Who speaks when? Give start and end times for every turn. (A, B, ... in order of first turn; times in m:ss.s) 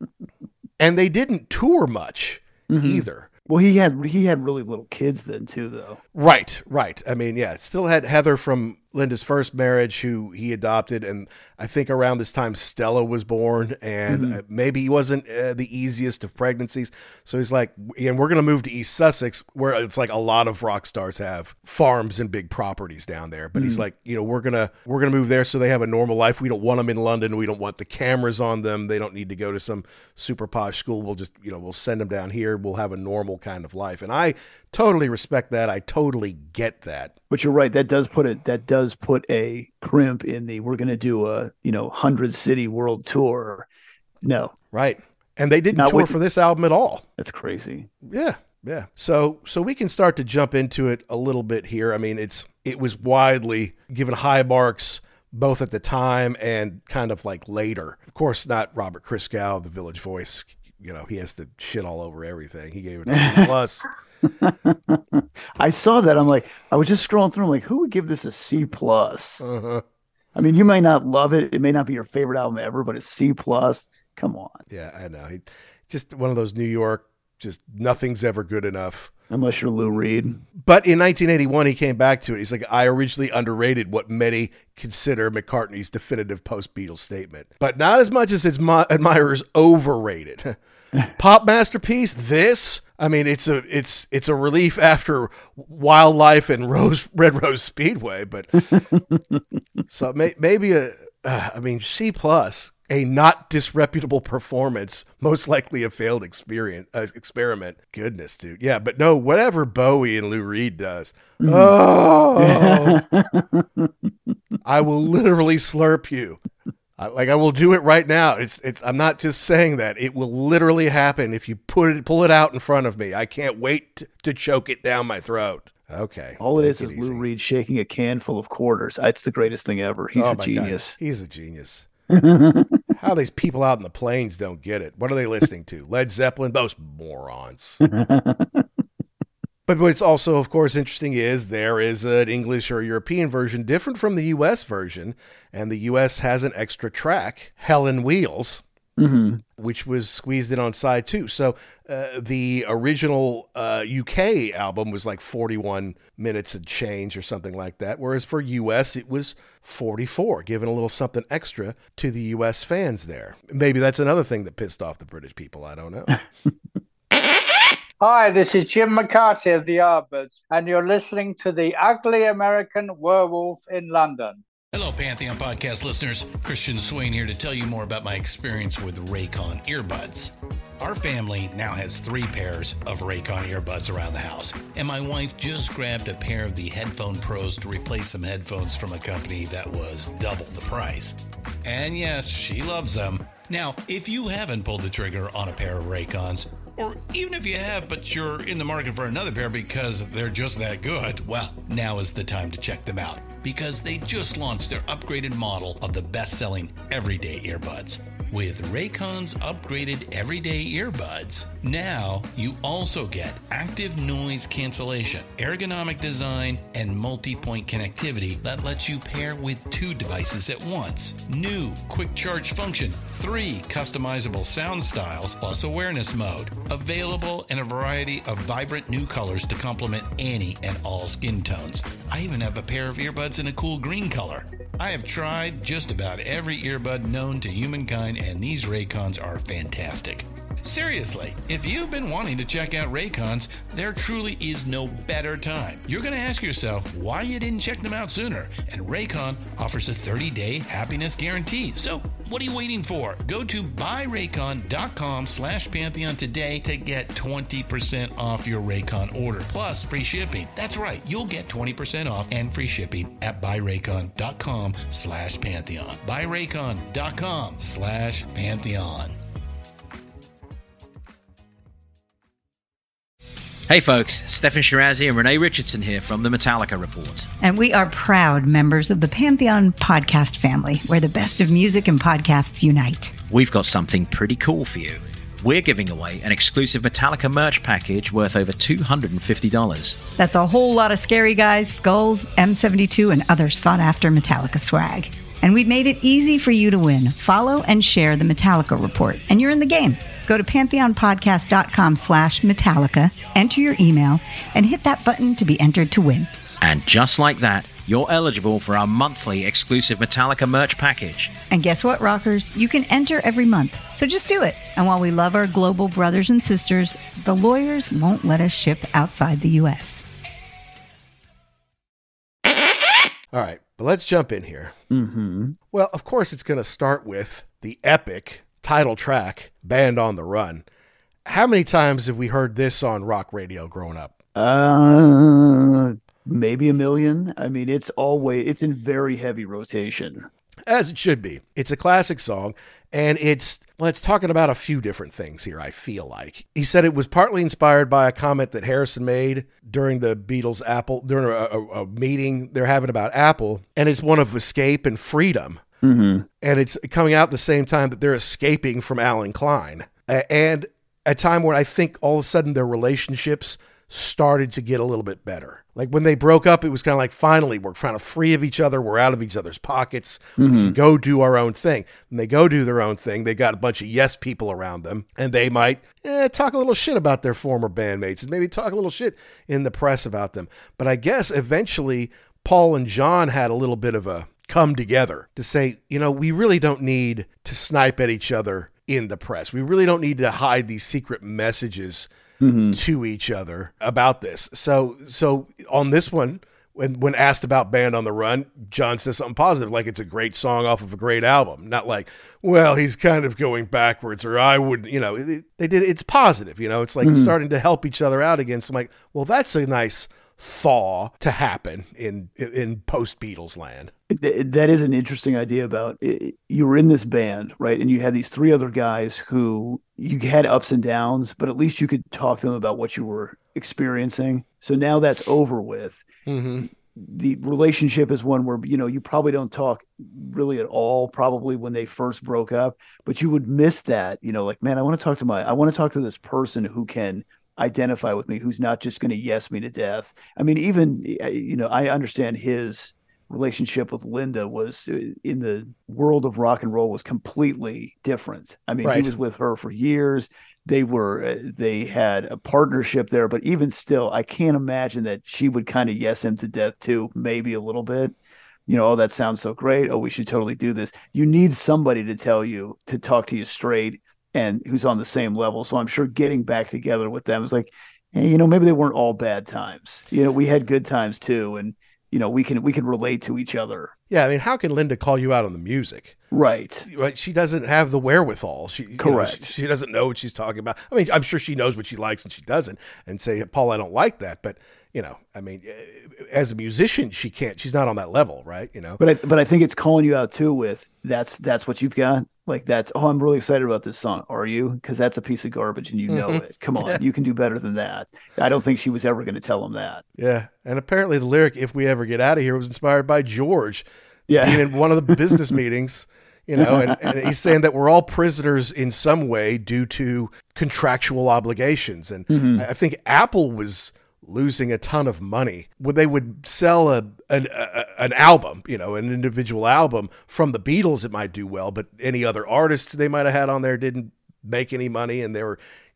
0:00.8-0:03.3 A
0:02.7-0:06.0 B
0:06.1-0:37.1 A
0:14.1-0:14.4 B
0:23.6-0:23.8 B
0:37.3-0:43.7 B
0:44.2-0:44.5 B
0:44.7-0:47.0 A
0:45.7-0:46.1 B
0:47.2-0:47.9 B
0:48.0-1:03.8 A
1:03.1-1:03.5 B
1:04.4-1:09.4 B
1:09.4-1:09.8 A
1:10.3-1:14.6 B
1:14.7-1:19.1 A
1:19.3-1:20.4 B
1:20.5-1:30.6 A
1:31.2-1:38.8 A
1:39.9-1:53.0 A
1:51.4-1:51.7 B
1:52.4-1:53.9 B
1:54.6-1:56.4 A
1:57.0-2:07.2 A
2:06.4-2:11.0 B
2:10.2-2:11.9 A
2:12.1-2:12.8 B
2:12.9-2:17.8 A
2:17.8-2:18.6 B
2:19.7-2:28.6 A
2:29.0-2:29.4 B
2:29.6-2:46.2 A
2:48.0-2:54.4 C
2:54.7-4:29.2 D
4:33.7-4:37.3 E
4:37.4-4:43.2 F
4:43.3-4:50.0 E
4:50.1-5:06.3 F
5:06.6-5:11.4 E
5:11.5-5:20.0 F
5:23.3-5:24.7 A
5:24.9-5:25.6 B
5:25.7-5:30.6 A
5:31.2-5:34.2 A
5:34.4-5:40.3 B
5:40.7-5:55.6 A
5:55.8-5:56.3 B
5:56.4-6:32.1 A
6:10.4-6:10.7 B
6:32.4-6:32.8 B
6:32.7-6:53.9 A
6:47.0-6:47.3 B
6:54.1-7:06.0 B
7:06.3-7:06.7 A
7:06.6-7:38.1 B
7:28.8-7:29.1 A
7:38.7-7:53.9 B
7:54.1-7:56.2 A
7:56.3-7:56.9 B
7:56.9-8:09.0 A
7:59.0-7:59.5 B
8:09.0-8:20.0 B
8:16.1-8:17.0 A
8:20.2-8:45.6 A
8:24.3-8:25.4 B
8:26.6-8:27.4 B
8:32.3-8:32.6 B